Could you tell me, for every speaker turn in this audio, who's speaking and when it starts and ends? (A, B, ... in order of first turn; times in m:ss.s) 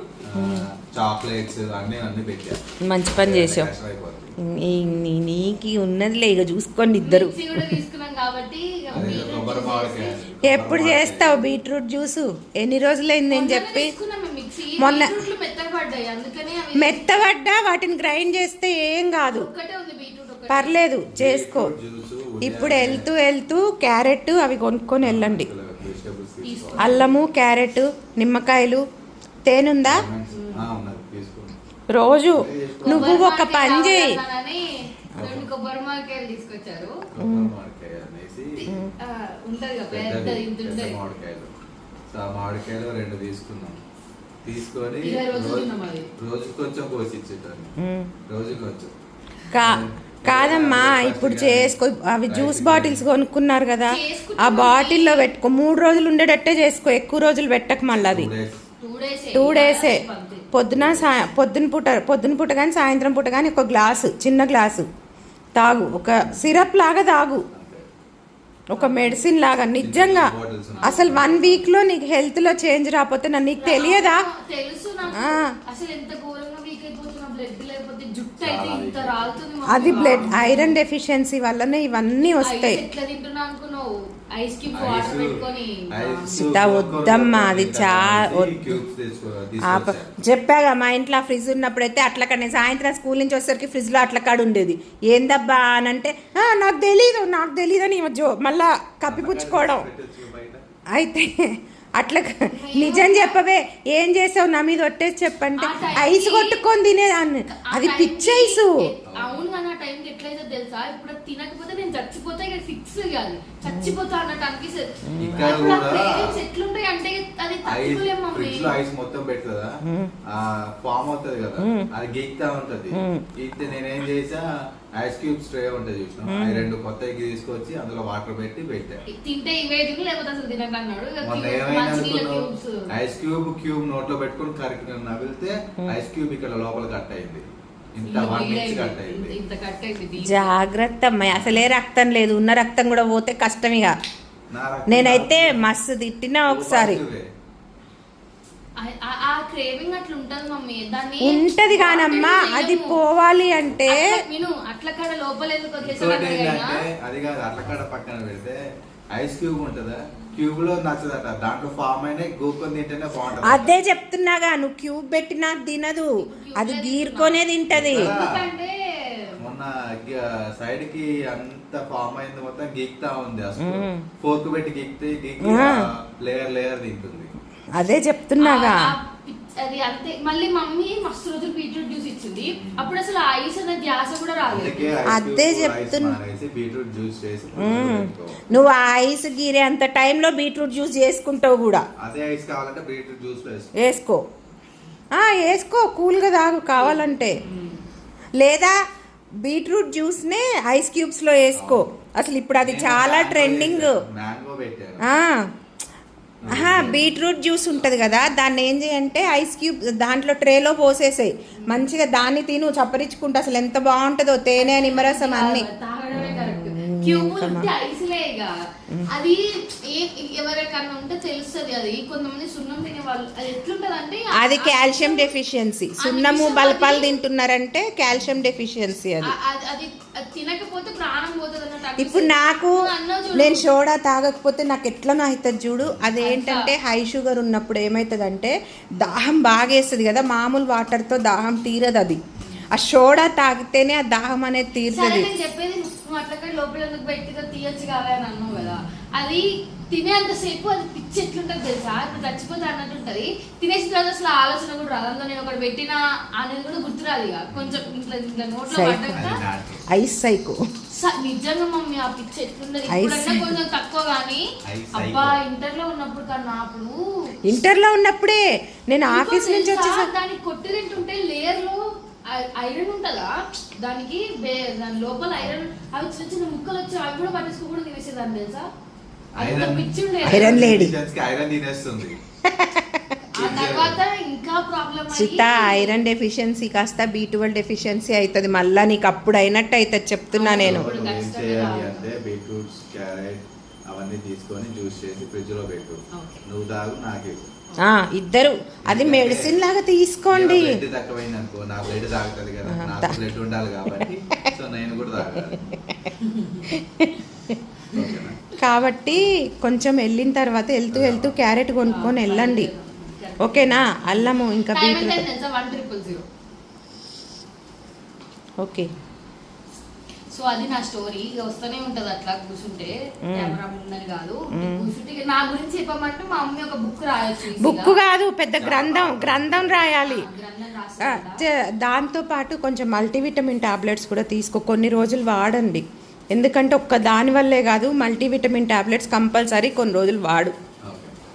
0:00.2-0:02.6 A
0:00.4-0:00.6 B
0:02.8-0:03.7 B
0:03.2-0:04.3 A
0:04.4-0:07.8 B
0:07.0-0:10.2 C
0:08.9-0:11.4 A
0:10.4-0:13.9 B
0:13.3-0:17.3 C
0:14.8-0:15.1 B
0:16.8-0:19.5 B
0:19.3-0:20.8 C
0:20.5-0:21.7 B
0:21.1-0:23.1 A
0:22.4-0:25.5 B
0:25.0-0:27.0 A
0:26.4-0:27.2 C
0:26.8-0:28.8 B
0:29.5-0:30.1 B
0:29.8-0:31.6 A
0:30.3-0:30.7 C
0:31.9-0:34.2 B
0:32.3-0:33.2 A
0:32.8-0:37.0 C
0:35.2-0:35.5 A
0:37.1-0:38.7 A
0:37.2-0:37.5 B
0:38.6-0:41.0 C
0:38.7-0:38.9 B
0:39.9-0:41.5 A
0:42.1-0:43.8 A
0:44.4-0:47.8 A
0:45.0-0:46.1 C
0:47.8-0:48.1 B
0:48.3-0:48.9 A
0:49.5-0:58.3 B
0:49.6-0:51.8 A
0:52.3-0:53.1 A
0:53.9-0:55.3 C
0:58.0-0:58.6 A
0:58.8-1:00.5 C
0:59.4-1:04.9 B
1:00.7-1:01.1 A
1:05.6-1:07.4 B
1:06.3-1:06.6 A
1:07.5-1:07.9 A
1:08.7-1:10.3 B
1:08.8-1:09.2 C
1:09.8-1:11.7 A
1:10.8-1:11.4 C
1:10.8-1:14.3 B
1:13.6-1:20.8 C
1:15.2-1:15.5 B
1:18.4-1:20.7 A
1:19.7-1:22.8 B
1:22.4-1:26.5 C
1:24.7-1:30.2 A
1:26.3-1:28.8 B
1:29.6-1:39.9 B
1:39.0-1:40.6 A
1:40.9-1:48.8 B
1:42.5-1:43.4 C
1:45.6-1:46.6 C
1:47.5-1:58.8 C
1:49.1-1:49.5 A
1:53.7-1:54.0 B
1:55.1-1:55.5 B
1:55.2-1:56.4 A
1:57.6-1:59.7 A
1:59.8-2:00.1 B
2:00.3-2:09.0 A
2:01.6-2:01.9 B
2:02.9-2:03.3 B
2:06.3-2:06.7 B
2:09.1-2:12.9 C
2:11.2-2:19.4 A
2:18.0-2:20.5 C
2:20.2-2:24.0 B
2:21.3-2:21.6 A
2:24.5-2:25.6 A
2:24.9-2:27.0 B
2:26.5-2:27.3 A
2:28.8-2:33.0 C
2:31.2-2:34.2 B
2:33.9-2:36.8 C
2:35.8-2:38.6 A
2:39.1-2:43.8 A
2:43.4-2:48.1 B
2:46.2-2:47.4 C
2:47.7-2:48.5 A
2:47.9-2:49.4 C
2:49.4-2:57.3 A
2:53.6-2:54.0 B
2:55.4-2:55.8 B
2:57.8-2:58.9 B
2:58.4-3:05.1 C
3:02.5-3:03.0 A
3:04.5-3:08.4 A
3:05.1-3:06.2 B
3:07.6-3:11.8 B
3:12.0-3:13.9 A
3:13.8-3:14.2 B
3:15.2-3:17.4 B
3:16.9-3:17.8 C
3:18.4-3:18.8 B
3:19.4-3:23.9 B
3:21.6-3:21.8 A
3:22.6-3:25.1 A
3:25.1-3:25.4 B
3:26.4-3:27.1 A
3:26.5-3:35.6 B
3:27.7-3:28.0 A
3:34.6-3:38.6 C
3:36.2-3:37.7 B
3:39.1-3:45.3 C
3:44.4-3:49.3 B
3:46.0-3:47.2 C
3:49.2-3:53.7 C
3:52.0-4:02.2 B
3:56.2-3:56.7 C
4:02.4-4:02.7 A
4:02.7-4:05.3 B
4:04.9-4:19.4 C
4:08.5-4:08.8 A
4:17.5-4:17.8 A
4:18.7-4:19.2 B
4:19.1-4:19.8 A
4:19.9-4:20.6 B
4:20.9-4:27.3 C
4:22.9-4:23.6 B
4:24.7-4:25.4 A
4:27.5-4:30.1 B
4:29.1-4:38.7 C
4:39.4-4:42.2 A
4:39.4-4:40.7 C
4:40.3-4:40.9 B
4:42.5-4:43.2 B
4:43.4-4:45.9 C
4:43.4-4:44.0 A
4:45.1-4:50.9 B
4:50.3-4:52.1 C
4:50.6-4:57.5 A
4:56.1-4:56.4 C
4:57.8-5:00.8 B
4:58.9-4:59.6 A
5:00.3-5:05.6 A
5:02.7-5:03.2 B
5:03.9-5:04.5 B
5:05.3-5:06.0 B
5:06.2-5:06.7 C
5:06.7-5:07.6 B
5:07.9-5:08.4 A
5:08.6-5:12.7 B
5:10.9-5:11.4 A
5:11.9-5:16.3 C
5:13.4-5:15.2 B
5:18.6-5:18.9 B
5:20.3-5:28.0 C
5:23.3-5:23.6 B
5:24.5-5:24.9 B
5:27.6-5:30.3 B
5:28.6-5:29.9 A
5:30.0-5:31.4 C
5:31.0-5:40.6 B
5:40.8-5:41.1 A